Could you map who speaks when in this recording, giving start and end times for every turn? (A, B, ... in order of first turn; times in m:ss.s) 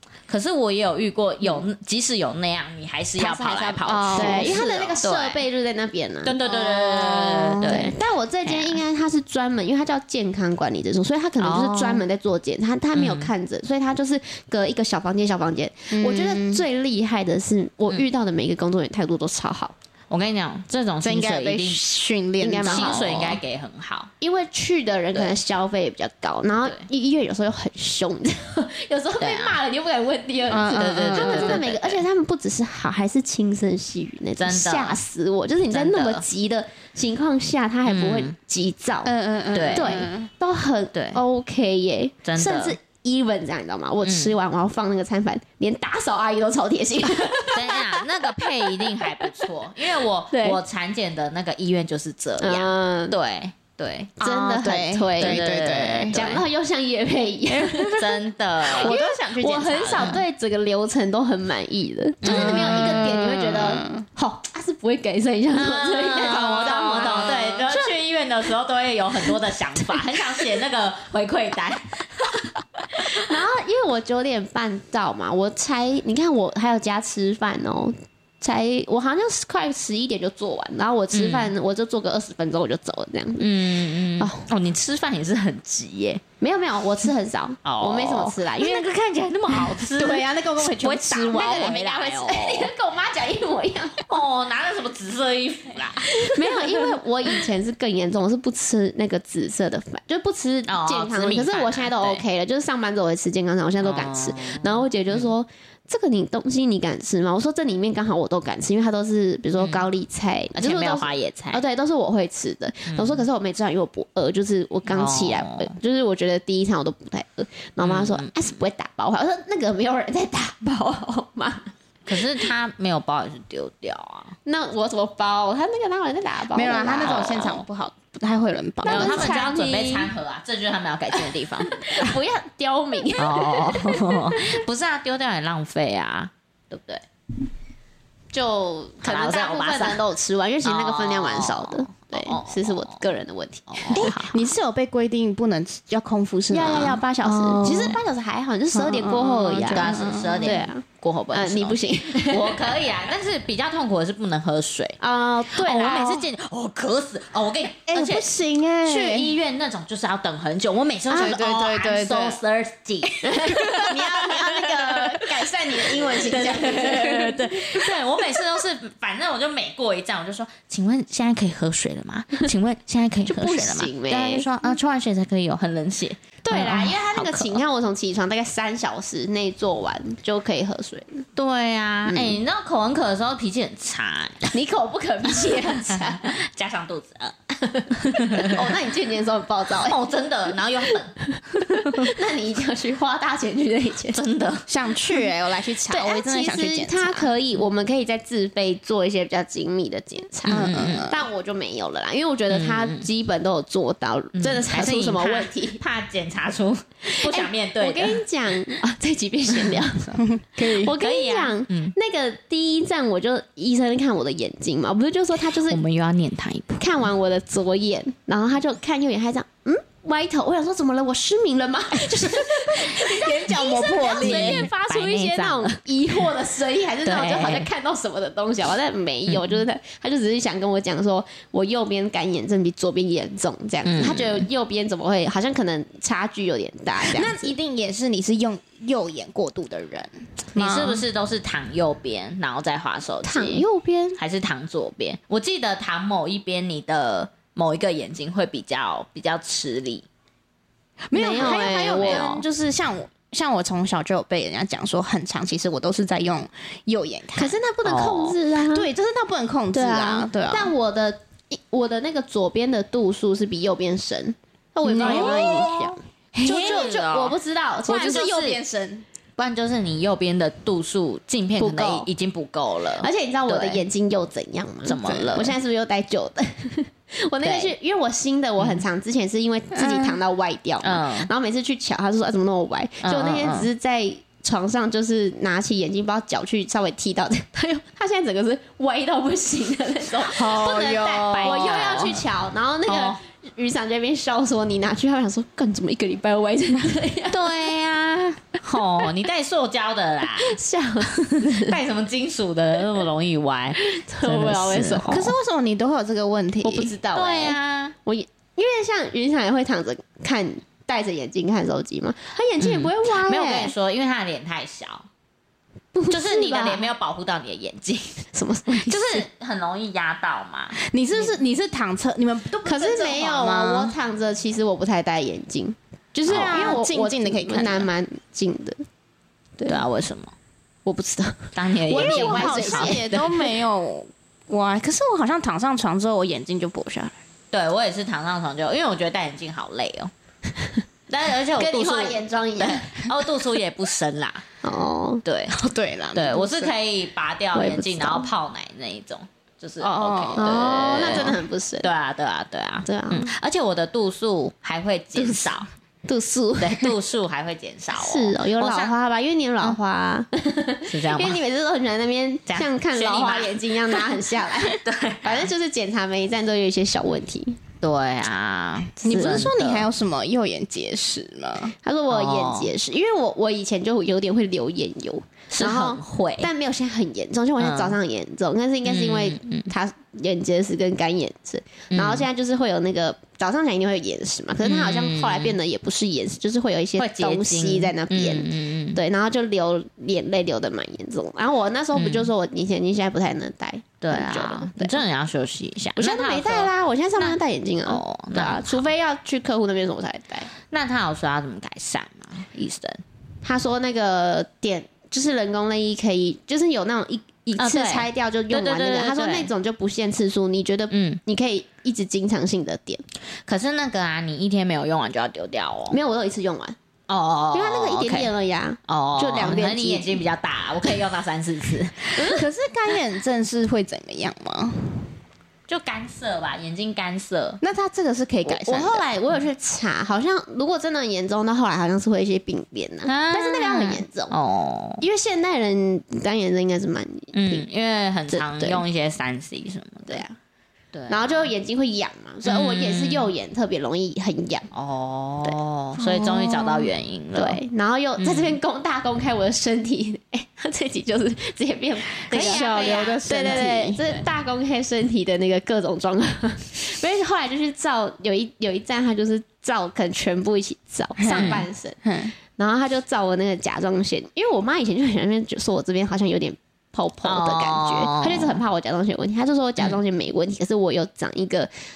0:00.3-0:05.4 A
0:03.2-0:06.4 B
0:03.9-0:04.7 C
0:06.2-0:08.8 A
0:06.4-0:07.9 C
0:07.6-0:19.7 B
0:11.4-0:12.0 A
0:12.9-0:13.3 A
0:15.9-0:16.6 C
0:20.1-0:21.8 A
0:21.0-0:23.4 C
0:22.4-0:23.3 B
0:22.6-0:24.1 A
0:24.2-0:39.1 B
0:29.2-0:29.6 A
0:30.5-0:31.6 C
0:30.8-0:32.0 A
0:34.4-0:35.0 A
0:35.7-0:36.2 A
0:37.8-0:38.3 A
0:39.0-0:40.3 C
0:39.5-0:40.0 A
0:39.7-0:48.0 B
0:40.9-0:41.2 A
0:42.2-0:42.8 A
0:44.0-0:44.3 A
0:47.5-0:54.1 A
0:50.3-0:50.6 B
0:52.4-0:53.2 B
0:54.2-0:55.5 B
0:54.2-0:56.2 C
0:55.2-0:56.4 A
0:56.1-0:58.0 B
0:57.5-0:58.1 C
0:58.0-0:59.0 A
0:58.6-1:07.9 B
0:58.7-1:00.2 C
0:59.5-1:00.2 A
1:02.2-1:03.2 A
1:02.2-1:04.0 C
1:05.5-1:12.4 A
1:06.5-1:07.6 C
1:13.1-1:23.5 B
1:21.1-1:21.5 A
1:23.4-1:26.2 A
1:24.2-1:24.4 B
1:26.4-1:28.9 B
1:27.6-1:32.7 A
1:29.9-1:31.8 C
1:31.3-1:34.1 B
1:34.0-1:36.7 A
1:36.1-2:01.7 B
1:40.7-1:42.2 A
1:43.8-1:45.3 A
1:49.6-1:49.8 A
1:50.5-1:51.6 A
1:52.9-1:53.2 A
1:54.9-1:55.7 A
1:57.8-1:58.3 A
2:02.0-2:04.3 A
2:04.4-2:07.6 B
2:06.5-2:09.3 C
2:06.9-2:07.6 A
2:08.8-2:10.1 B
2:08.8-2:12.1 A
2:11.7-2:14.6 B
2:13.2-2:17.0 A
2:18.3-2:24.1 B
2:19.0-2:20.0 A
2:20.6-2:23.0 A
2:23.7-2:24.4 A
2:23.9-2:28.0 C
2:26.5-2:29.9 B
2:28.7-2:30.6 C
2:29.7-2:35.0 A
2:30.4-2:32.9 B
2:35.0-2:36.3 B
2:35.5-2:38.2 A
2:37.9-2:39.2 B
2:38.5-2:39.3 C
2:38.8-2:44.3 A
2:41.1-2:42.4 C
2:43.2-2:47.4 B
2:43.4-2:47.4 C
2:46.1-2:57.6 A
2:53.2-2:54.5 B
2:56.4-3:01.2 B
3:01.4-3:04.5 A
3:04.5-3:06.4 B
3:05.4-3:07.4 A
3:07.6-3:14.2 B
3:07.9-3:08.6 A
3:09.8-3:11.2 A
3:11.8-3:12.1 A
3:14.1-3:14.7 A
3:14.7-3:17.3 C
3:15.9-3:25.8 B
3:20.4-3:21.1 A
3:20.5-3:21.2 C
3:22.5-3:23.1 A
3:24.3-3:28.2 A
3:27.2-3:35.8 B
3:30.2-3:30.9 C
3:31.0-3:31.9 A
3:35.5-3:36.9 A
3:36.8-3:57.6 B
3:42.6-3:44.7 C
3:44.2-3:45.8 A
3:47.0-3:47.7 A
3:49.3-3:49.6 A
3:53.8-3:54.4 A
3:57.0-4:01.0 C
4:00.5-4:03.6 A
4:03.2-4:04.2 B
4:04.2-4:10.0 A
4:11.1-4:17.6 C
4:11.1-4:12.4 B
4:11.4-4:12.3 A
4:17.4-4:18.9 B
4:17.8-4:18.4 A
4:18.7-4:20.7 C
4:19.7-4:28.3 B
4:24.9-4:27.0 C
4:25.0-4:25.7 A
4:26.4-4:27.3 A
4:27.8-4:29.0 C
4:27.9-4:28.6 A
4:29.4-4:33.8 A
4:31.6-4:32.1 B
4:33.0-4:57.5 B
4:34.8-4:35.6 A
4:35.0-4:35.5 C
4:37.4-4:37.7 A
4:39.7-4:40.2 C
4:40.8-4:41.3 A
4:43.0-4:43.7 A
4:50.2-4:52.2 A
4:50.2-4:52.1 C
4:52.8-4:53.2 A
4:57.3-5:05.2 A
5:00.4-5:01.8 B
5:03.8-5:05.3 B
5:05.1-5:06.9 C
5:06.6-5:13.7 B
5:07.1-5:07.9 A
5:12.6-5:15.0 A
5:15.9-5:16.9 B
5:16.1-5:21.3 A
5:18.3-5:19.2 B
5:20.7-5:23.9 C
5:22.6-5:28.8 B
5:26.2-5:27.9 C
5:26.3-5:26.7 A
5:29.6-5:30.3 A
5:30.8-5:33.5 B
5:31.5-5:33.2 A
5:31.9-5:37.2 C
5:37.5-5:40.1 A
5:41.1-5:44.4 A
5:41.6-5:43.1 B
5:44.6-5:45.2 B
5:45.2-5:45.6 A
5:45.5-5:46.7 C
5:46.1-5:55.7 A
5:47.5-5:48.3 B
5:49.8-5:51.4 C
5:50.4-5:51.9 B
5:52.8-5:53.3 B
5:56.0-5:56.9 B
5:56.6-5:58.9 A
5:57.9-6:07.6 B
6:00.9-6:01.4 A
6:02.5-6:04.0 A
6:04.6-6:05.5 A
6:07.8-6:09.9 A
6:09.0-6:11.7 C
6:09.1-6:09.5 B
6:11.8-6:35.0 B
6:12.1-6:12.7 A
6:15.5-6:16.5 A
6:17.6-6:18.0 A
6:18.8-6:19.7 A
6:21.9-6:22.2 A
6:24.6-6:25.6 A
6:27.0-6:29.0 A
6:31.9-6:32.3 A
6:34.0-6:38.8 A
6:36.0-6:40.5 B
6:40.7-6:43.0 A
6:43.4-6:53.0 B
6:47.6-6:49.5 A
6:50.9-6:51.2 A
6:53.5-6:56.0 A
6:55.9-6:56.8 B
6:57.1-6:58.3 A
6:57.5-7:00.2 B
6:58.9-7:02.1 A
7:02.2-7:02.4 B
7:02.2-7:05.2 C
7:05.7-7:07.6 A
7:07.6-7:09.0 C
7:08.4-7:14.3 B
7:13.0-7:15.0 A
7:15.0-7:17.7 B
7:17.3-7:20.2 A
7:18.3-7:18.8 B
7:20.1-7:20.3 B
7:20.9-7:21.5 A
7:21.1-7:24.7 B
7:22.4-7:23.3 A
7:24.7-7:27.6 A
7:25.5-7:42.0 B
7:28.2-7:28.6 A
7:32.2-7:34.0 C
7:32.3-7:34.2 A
7:41.2-7:42.3 C
7:41.3-7:41.6 A
7:42.6-7:51.7 B
7:47.2-7:48.6 A